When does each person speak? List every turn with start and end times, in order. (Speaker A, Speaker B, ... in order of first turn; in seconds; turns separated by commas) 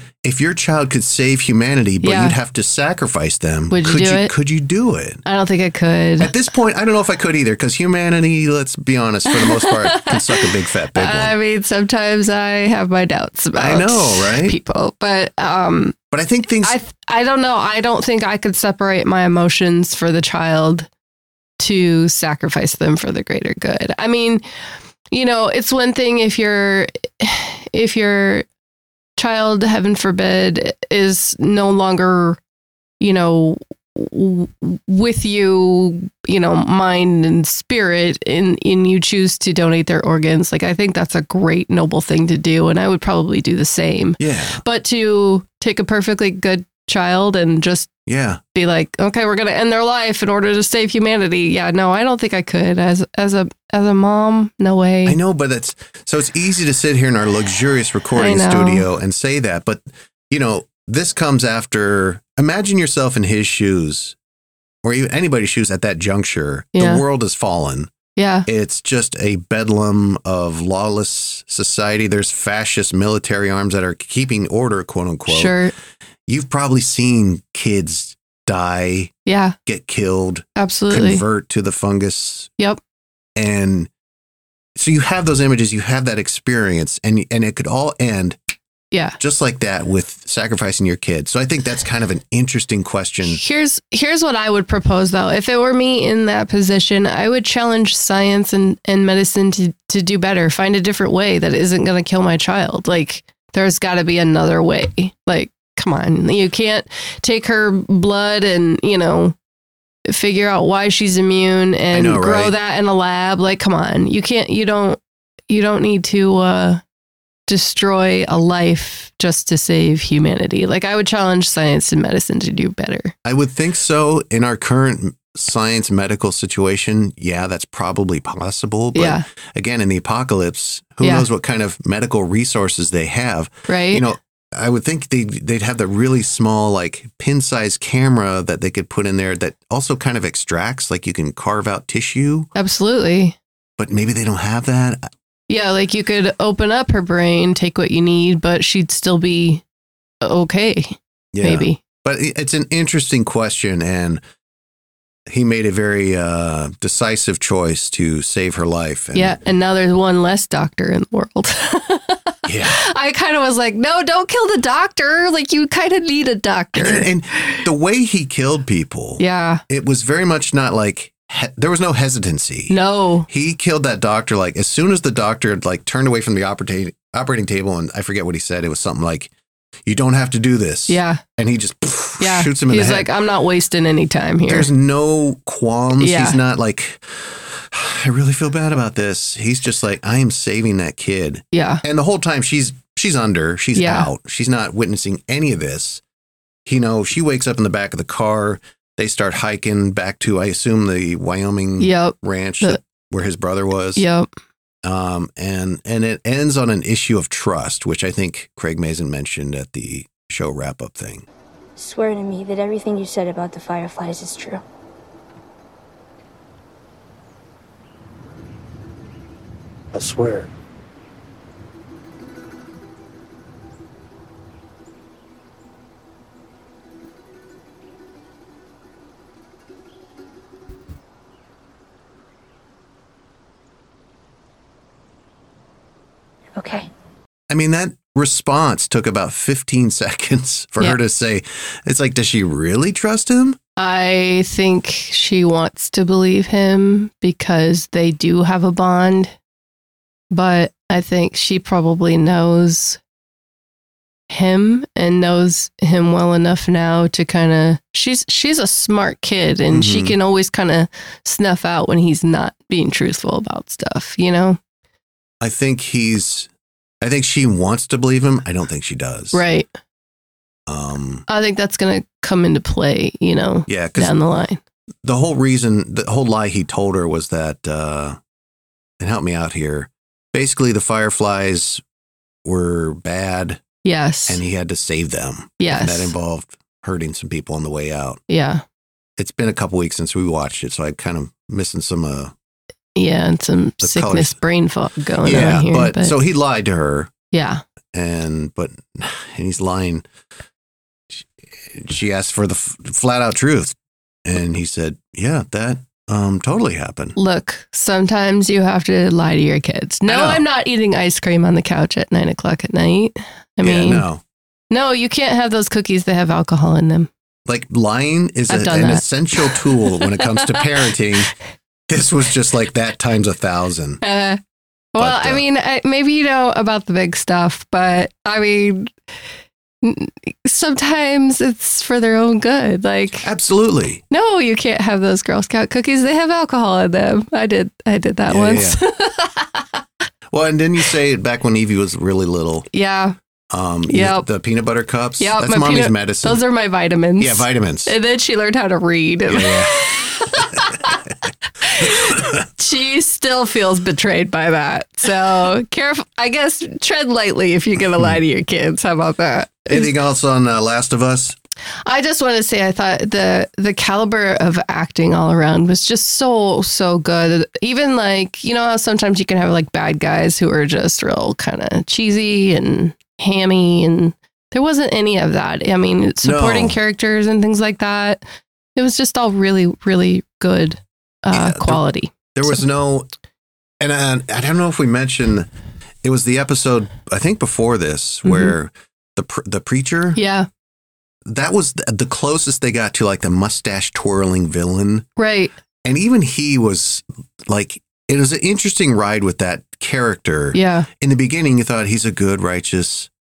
Speaker A: 0.2-5.2, Speaker B: 2.0-2.4, Speaker B: 3.7-4.3, Speaker B: 5.2-6.3, Speaker A: 6.2-11.4, Speaker B: 9.3-15.9, Speaker A: 13.6-14.6, Speaker A: 16.1-16.8, Speaker B: 16.6-20.9, Speaker B: 21.6-24.4, Speaker B: 25.1-28.4, Speaker B: 29.2-32.4, Speaker B: 33.0-47.9, Speaker A: 44.2-44.6, Speaker A: 48.1-48.4, Speaker B: 48.5-55.2, Speaker A: 55.0-64.2, Speaker B: 58.1-58.9, Speaker A: 64.8-67.9, Speaker B: 66.8-67.0, Speaker B: 68.2-68.5, Speaker A: 68.5-75.6, Speaker B: 75.3-75.7, Speaker A: 76.3-79.1, Speaker B: 79.2-79.6, Speaker A: 79.7-82.5, Speaker B: 80.6-81.2, Speaker A: 83.4-83.9, Speaker A: 84.8-88.4, Speaker B: 88.9-89.2, Speaker A: 89.2-93.4, Speaker B: 93.2-109.3, Speaker B: 110.0-116.8, Speaker A: 111.9-112.5, Speaker B: 117.5-123.1, Speaker A: 123.2-142.5, Speaker B: 128.9-129.2, Speaker B: 131.0-131.3, Speaker B: 133.7-134.0, Speaker B: 142.5-143.4, Speaker A: 143.8-145.0, Speaker B: 145.5-149.6, Speaker B: 150.2-151.8, Speaker A: 151.3-154.2, Speaker A: 155.3-159.4, Speaker B: 159.1-167.7, Speaker A: 162.5-162.8, Speaker A: 166.8-172.8, Speaker B: 169.2-169.6, Speaker B: 172.7-173.3, Speaker A: 173.3-179.3, Speaker A: 179.8-183.1, Speaker B: 180.9-181.2, Speaker B: 182.2-184.7, Speaker A: 184.5-196.0, Speaker B: 186.0-186.4, Speaker B: 191.5-191.8, Speaker B: 193.8-194.1, Speaker A: 196.6-204.0, Speaker B: 201.8-202.8, Speaker B: 204.0-204.3, Speaker A: 204.8-211.3, Speaker C: 211.8-214.6, Speaker C: 219.9-220.5, Speaker C: 236.6-236.9, Speaker A: 237.5-243.6, Speaker B: 243.8-249.3, Speaker B: 250.3-253.0, Speaker B: 254.3-264.6, Speaker A: 259.7-260.2, Speaker A: 265.4-266.5, Speaker A: 267.0-269.4, Speaker B: 269.3-269.7, Speaker A: 270.7-271.2, Speaker B: 271.3-274.6, Speaker A: 273.7-274.1, Speaker A: 275.0-278.2, Speaker A: 279.0-281.8, Speaker A: 282.4-283.6, Speaker B: 283.8-284.4, Speaker A: 284.3-288.2, Speaker B: 285.6-286.1, Speaker B: 288.3-288.6, Speaker A: 289.2-292.3, Speaker B: 293.0-296.1, Speaker A: 293.8-294.4, Speaker A: 295.2-297.1, Speaker B: 297.3-297.6, Speaker A: 297.9-300.0, Speaker A: 301.1-307.1, Speaker B: 307.1-314.1, Speaker A: 310.1-310.4, Speaker A: 313.6-314.2, Speaker B: 314.7-317.1, Speaker A: 317.5-321.3, Speaker B: 318.5-319.6, Speaker B: 320.1-320.5, Speaker A: 321.9-324.0, Speaker B: 324.0-324.4, Speaker B: 324.9-328.9, Speaker A: 325.0-325.4, Speaker B: 329.8-333.3, Speaker A: 333.2-334.0, Speaker B: 334.1-339.8, Speaker A: 338.3-338.8, Speaker A: 340.3-342.7, Speaker B: 342.7-343.1, Speaker A: 343.5-346.4, Speaker B: 343.9-344.3, Speaker B: 345.2-351.0, Speaker A: 347.2-348.0, Speaker A: 349.3-349.8, Speaker B: 351.6-359.9, Speaker A: 351.8-352.3, Speaker A: 359.7-361.4, Speaker B: 361.9-378.2, Speaker A: 376.2-376.8, Speaker B: 378.8-382.6, Speaker A: 381.3-381.8, Speaker A: 382.4-383.1, Speaker A: 383.8-385.5, Speaker A: 386.0-390.2, Speaker B: 388.2-388.5, Speaker B: 390.1-390.5, Speaker A: 391.2-395.1, Speaker B: 395.2-395.5, Speaker A: 395.8-403.1, Speaker B: 400.5-400.9